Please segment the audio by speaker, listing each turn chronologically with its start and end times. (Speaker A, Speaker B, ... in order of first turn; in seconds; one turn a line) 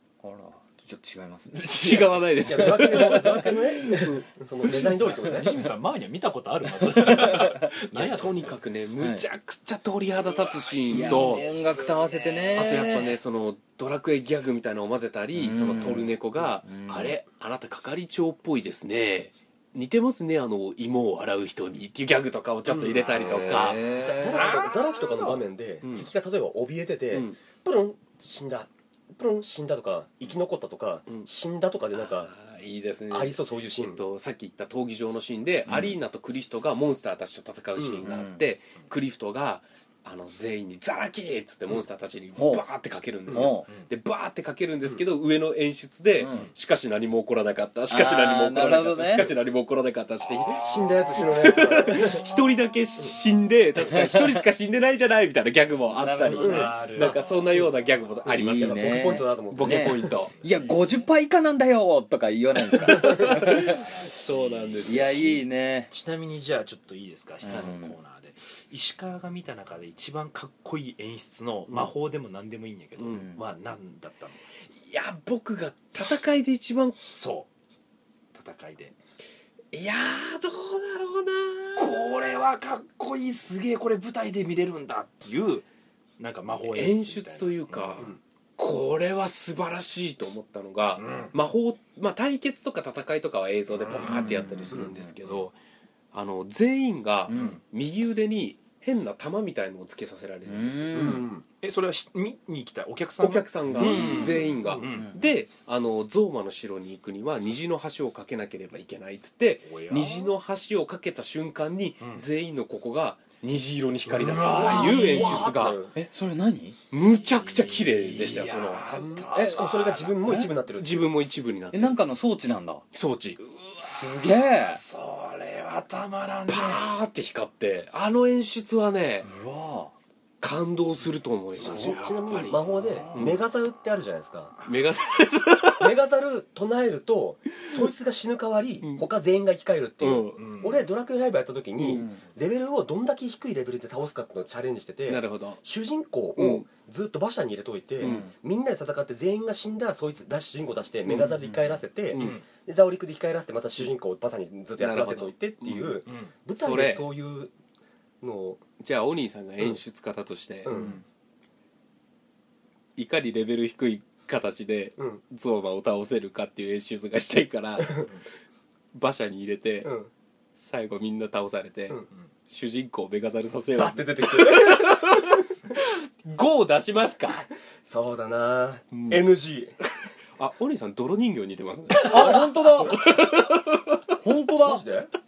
Speaker A: 0.2-1.6
Speaker B: 1.5-2.8
Speaker C: 1.7-4.3
Speaker D: 2.4-5.6
Speaker B: 4.6-8.6
Speaker A: 7.0-7.5
Speaker C: 7.9-11.5
Speaker A: 9.0-9.2
Speaker B: 10.3-12.6
Speaker A: 10.9-13.1
Speaker C: 12.5-23.8
Speaker A: 15.3-17.1
Speaker D: 22.7-32.3
Speaker A: 23.2-24.6
Speaker B: 24.3-25.2
Speaker C: 25.8-26.1
Speaker C: 27.1-27.4
Speaker C: 31.9-58.9
Speaker D: 33.1-34.0
Speaker D: 37.8-38.0
Speaker A: 38.0-38.4
Speaker A: 42.4-42.6
Speaker A: 43.3-43.7
Speaker A: 46.2-46.5
Speaker A: 47.9-49.3
Speaker D: 50.5-52.2
Speaker A: 53.8-54.4
Speaker A: 55.9-56.7
Speaker B: 56.3-57.4
Speaker D: 56.4-57.6
Speaker D: 58.2-60.2
Speaker A: 58.3-63.9
Speaker C: 59.5-60.3
Speaker B: 60.1-61.0
Speaker B: 62.8-74.4
Speaker C: 62.9-65.4
Speaker A: 64.8-65.9
Speaker A: 67.4-67.9
Speaker C: 73.0-73.3
Speaker A: 73.1-73.4
Speaker C: 74.9-77.0
Speaker B: 77.1-77.5
Speaker B: 78.3-78.9
Speaker C: 79.7-82.1
Speaker B: 81.8-85.6
Speaker B: 86.2-88.2
Speaker C: 86.7-95.5
Speaker B: 91.0-91.3
Speaker B: 93.7-95.4
Speaker A: 94.0-95.1
Speaker C: 96.1-101.2
Speaker A: 97.3-97.6
Speaker B: 97.3-97.6
Speaker A: 100.5-101.2
Speaker D: 100.9-101.4
Speaker B: 101.6-105.1
Speaker C: 103.2-115.8
Speaker A: 103.8-105.2
Speaker B: 109.7-110.3
Speaker B: 114.0-115.8
Speaker D: 114.5-115.9
Speaker A: 115.9-116.8
Speaker C: 116.9-119.1
Speaker B: 117.0-120.2
Speaker D: 118.9-121.1
Speaker A: 119.3-119.6
Speaker A: 120.2-120.5
Speaker C: 120.8-122.0
Speaker A: 121.7-122.8
Speaker C: 122.9-123.4
Speaker B: 123.4-126.9
Speaker A: 123.8-124.8
Speaker C: 126.5-129.3
Speaker A: 129.2-129.9
Speaker C: 130.4-133.4
Speaker B: 131.6-132.5
Speaker D: 131.6-134.5
Speaker A: 132.7-133.3
Speaker C: 134.6-135.9
Speaker D: 135.8-157.5
Speaker C: 140.0-140.6
Speaker B: 140.4-140.8
Speaker C: 145.1-145.6
Speaker C: 146.3-146.7
Speaker C: 148.0-148.3
Speaker A: 148.0-148.3
Speaker C: 151.1-151.3
Speaker C: 152.1-152.4
Speaker B: 152.1-152.4
Speaker C: 154.8-156.0
Speaker B: 156.1-156.3
Speaker C: 156.5-157.1
Speaker D: 158.2-158.6
Speaker C: 158.8-160.9
Speaker D: 160.6-161.0
Speaker C: 162.9-168.1
Speaker C: 168.9-169.9
Speaker D: 169.8-170.1
Speaker C: 170.6-177.4
Speaker D: 173.7-175.4
Speaker D: 177.9-179.8
Speaker C: 178.9-179.2
Speaker C: 180.4-184.0
Speaker A: 182.0-183.0
Speaker A: 184.2-184.8
Speaker D: 184.6-185.1